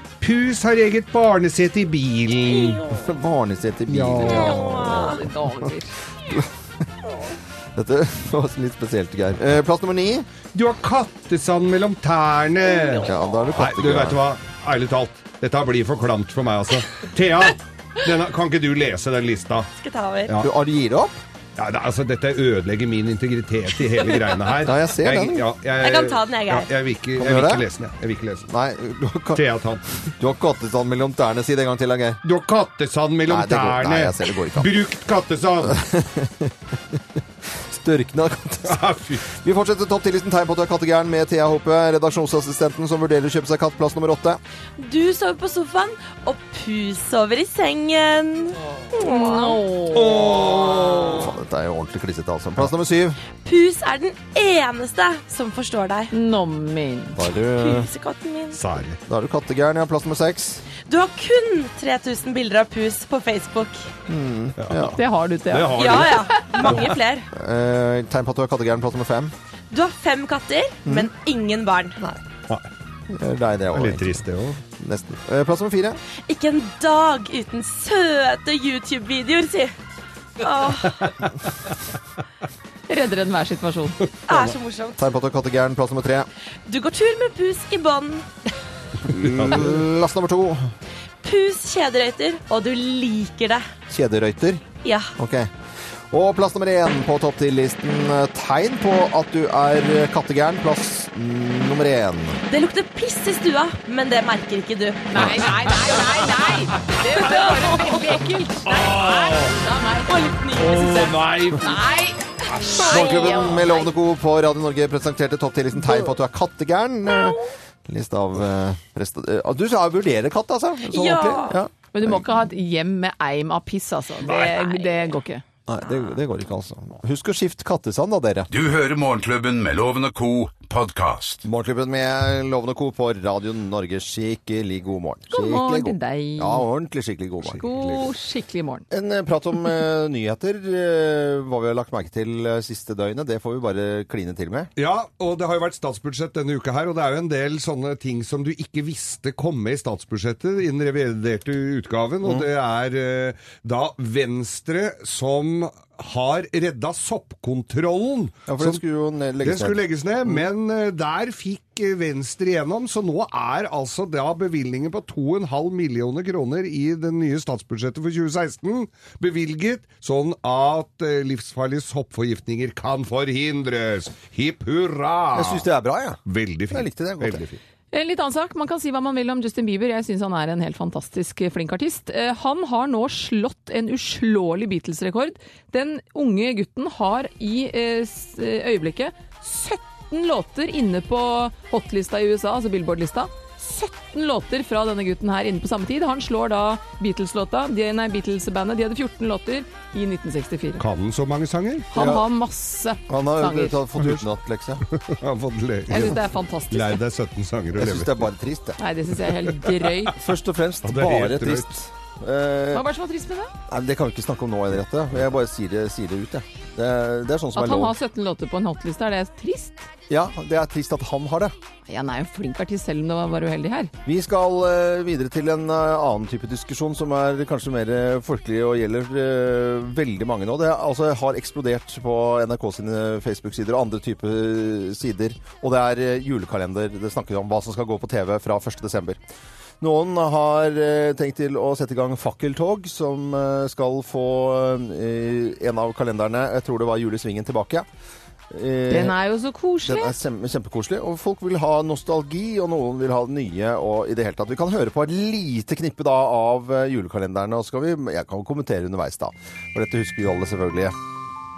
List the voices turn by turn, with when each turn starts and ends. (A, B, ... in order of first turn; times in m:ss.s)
0:00.2-0:02.9 A
0:02.5-0:03.0 B
0:02.9-0:05.2 C
0:03.9-0:04.9 A
0:04.2-0:05.2 B
0:04.9-0:05.9 D
0:06.3-0:06.5 C
0:07.8-0:10.3 C
0:10.5-0:19.7 A
0:12.7-0:13.1 B
0:13.0-0:14.2 C
0:19.8-0:20.3 B
0:20.4-0:21.2 C
0:21.6-0:28.5 A
0:24.6-0:25.4 C
0:25.8-0:26.7 B
0:27.2-0:27.7 C
0:28.5-0:29.4 C
0:29.3-0:29.8 A
0:30.2-0:32.2 C
0:32.2-0:35.8 A
0:33.3-0:34.7 C
0:35.6-0:37.0 C
0:37.5-0:44.4 C
0:38.7-0:39.2 A
0:44.8-0:49.6 B
0:49.0-0:50.5 D
0:50.0-0:51.1 A
0:50.3-0:51.1 B
0:51.1-0:53.2 C
0:53.4-0:56.1 B
0:56.1-0:57.2 D
0:57.2-0:57.9 C
0:57.4-0:58.6 B
0:58.5-0:59.0 A
0:59.1-1:00.6 C
1:00.8-1:03.9 B
1:04.1-1:05.0 C
1:04.6-1:05.0 A
1:05.0-1:06.5 D
1:05.5-1:06.8 A
1:05.8-1:07.3 B
1:06.6-1:09.3 C
1:09.7-1:12.1 B
1:13.1-1:16.0 C
1:13.7-1:14.6 A
1:16.3-1:19.8 B
1:20.4-1:21.1 B
1:21.0-1:21.3 A
1:22.9-1:24.0 D
1:24.3-1:25.1 B
1:24.3-1:26.3 C
1:26.7-1:28.3 B
1:29.1-1:29.8 A
1:29.1-1:30.7 C
1:31.2-1:33.7 B
1:33.9-1:35.5 C
1:34.8-1:35.2 B
1:36.1-1:42.4 C
1:42.5-1:45.1 B
1:45.1-1:50.3 D
1:47.2-1:48.0 B
1:48.7-1:49.5 A
1:50.1-1:51.3 B
1:50.6-1:51.6 A
1:51.0-1:53.9 D
1:52.5-1:52.8 A
1:52.8-2:02.2 C
1:52.9-1:53.3 B
2:00.9-2:01.6 B
2:01.9-2:05.4 D
2:04.3-2:04.9 B
2:05.7-2:08.5 C
2:08.5-2:11.4 E
2:11.4-2:17.6 C
2:15.3-2:16.7 D
2:17.4-2:18.1 A
2:17.6-2:18.8 D
2:18.9-2:24.7 C
2:24.8-2:38.8 A
2:38.5-2:40.4 C
2:39.4-2:55.7 A
2:55.4-2:57.4 C
2:56.3-2:57.6 A
2:57.9-3:20.8 D
3:20.8-3:21.9 A
3:21.9-3:23.8 D
3:22.0-3:22.2 C
3:23.1-3:24.8 C
3:24.9-3:28.2 A
3:25.9-3:27.0 D
3:27.8-3:28.8 C
3:28.8-3:30.2 D
3:30.2-3:32.9 C
3:30.8-3:31.7 A
3:32.7-3:33.5 D
3:33.7-3:37.9 C
3:37.6-3:39.9 D
3:40.1-3:41.6 C
3:41.9-3:43.9 D
3:44.0-3:59.2 C
3:59.8-4:07.9 C
4:08.5-4:09.2 C
4:08.9-4:10.2 D
4:09.8-4:21.0 C